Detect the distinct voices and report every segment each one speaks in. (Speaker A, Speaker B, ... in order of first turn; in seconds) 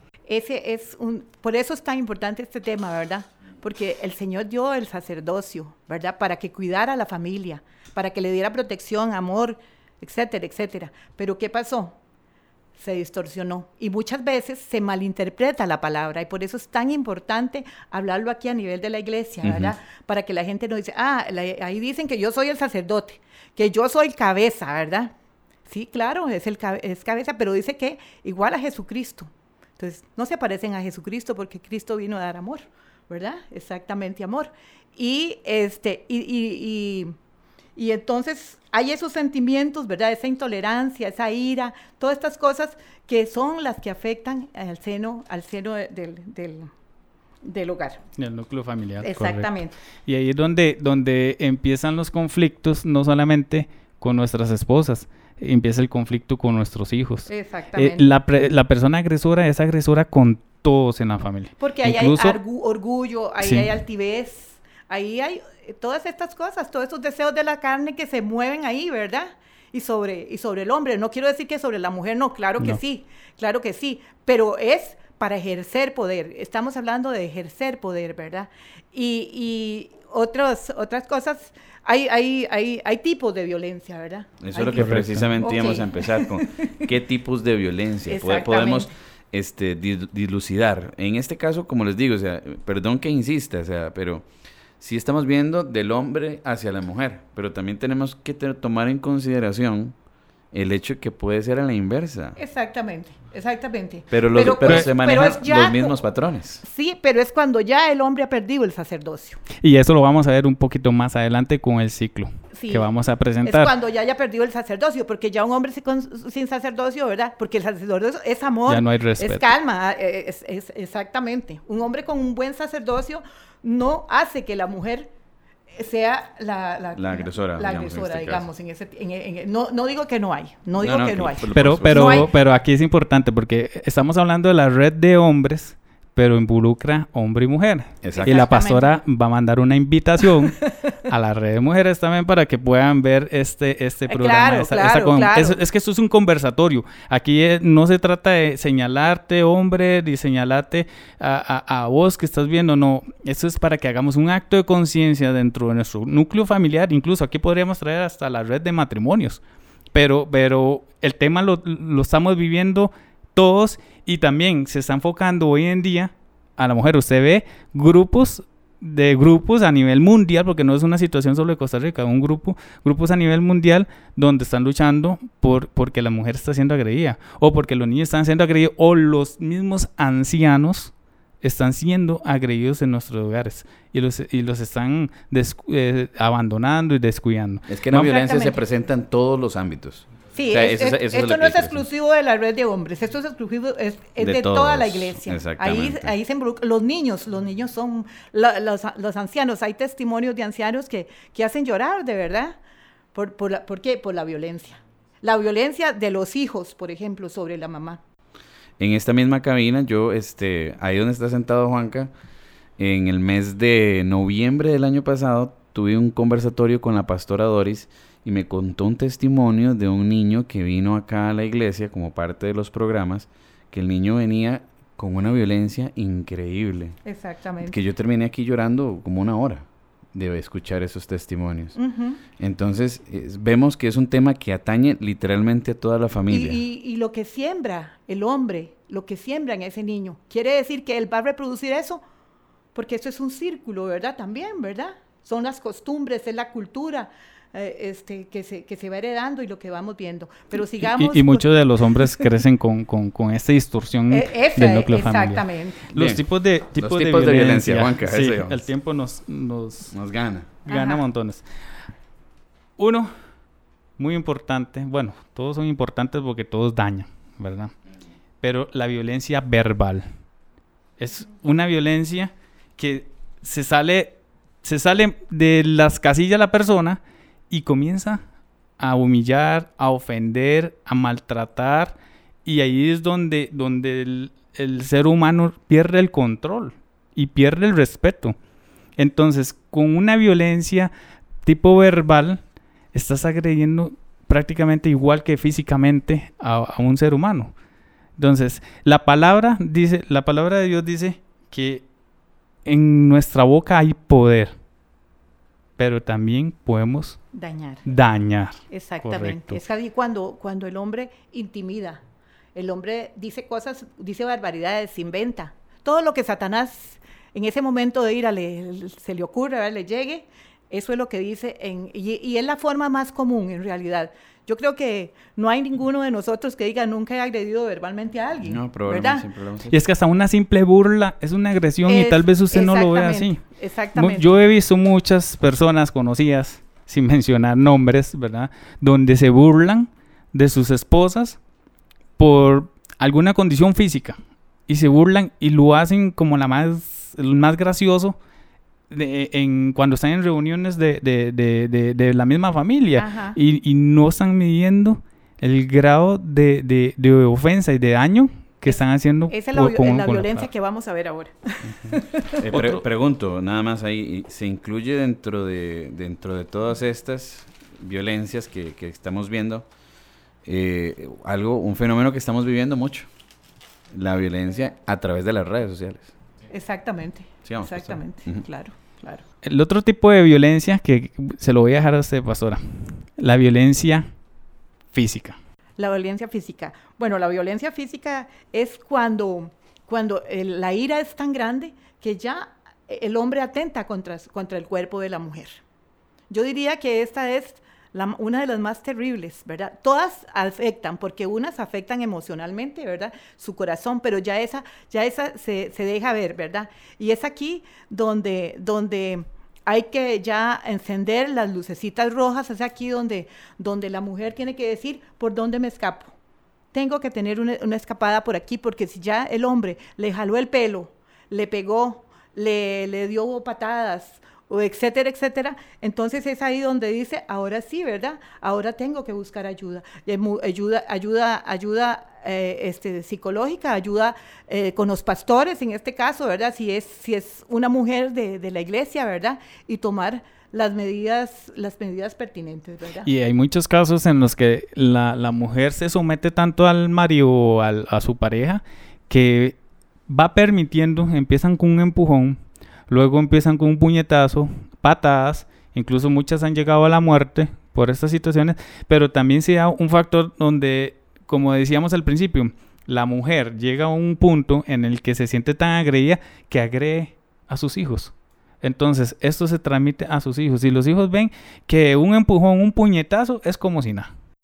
Speaker A: 0.3-11.9, 12.8-25.1, 25.7-37.1, 37.8-46.7, 47.4-48.0, 49.0-49.8, 57.3-58.1, 61.6-86.7, 88.1-88.9, 102.3-105.9, 106.6-109.4, 112.5-112.9, 113.4-125.1, 125.7-132.3, 138.2-139.0, 140.6-140.9, 144.1-145.6, 187.9-188.6, 190.3-202.6, 203.1-208.0, 227.0-227.8, 231.8-232.2, 236.3-242.0, 242.7-252.3, 254.1-255.8, 260.7-261.0, 307.3-307.9, 308.7-312.0, 312.5-329.2, 331.9-334.4, 353.0-353.4, 358.6-362.4, 376.5-379.2, 385.8-395.6, 396.3-416.1, 416.7-443.1
Speaker B: 19.4-19.7, 84.4-94.2, 94.8-99.9, 100.5-102.4, 104.1-106.6, 127.0-128.5, 130.8-132.2, 138.0-138.4, 187.7-191.8, 194.2-196.1, 208.8-212.1, 212.8-227.0, 227.6-231.8, 232.4-236.6, 255.9-256.2, 256.7-258.6, 259.9-260.6, 328.4-329.8, 362.4-369.6, 370.4-373.1, 373.9-376.1, 377.4-378.4
Speaker C: 48.2-49.5, 50.0-62.4, 63.4-63.8, 84.7-85.3, 109.6-113.7, 118.7-119.5, 131.5-159.4, 159.9-188.1, 250.6-259.9, 260.6-261.4, 262.8-263.1, 264.0-267.7, 268.4-270.1, 271.0-278.2, 278.8-288.3, 289.0-290.9, 291.4-292.4, 292.9-297.5, 298.2-301.8, 302.6-304.5, 305.8-307.2, 307.9-309.6, 329.7-333.4, 334.0-341.4, 342.2-344.2, 344.7-348.2, 348.9-360.5, 362.5-362.8, 379.4-384.1, 384.9-385.4, 443.0-449.5, 450.1-474.1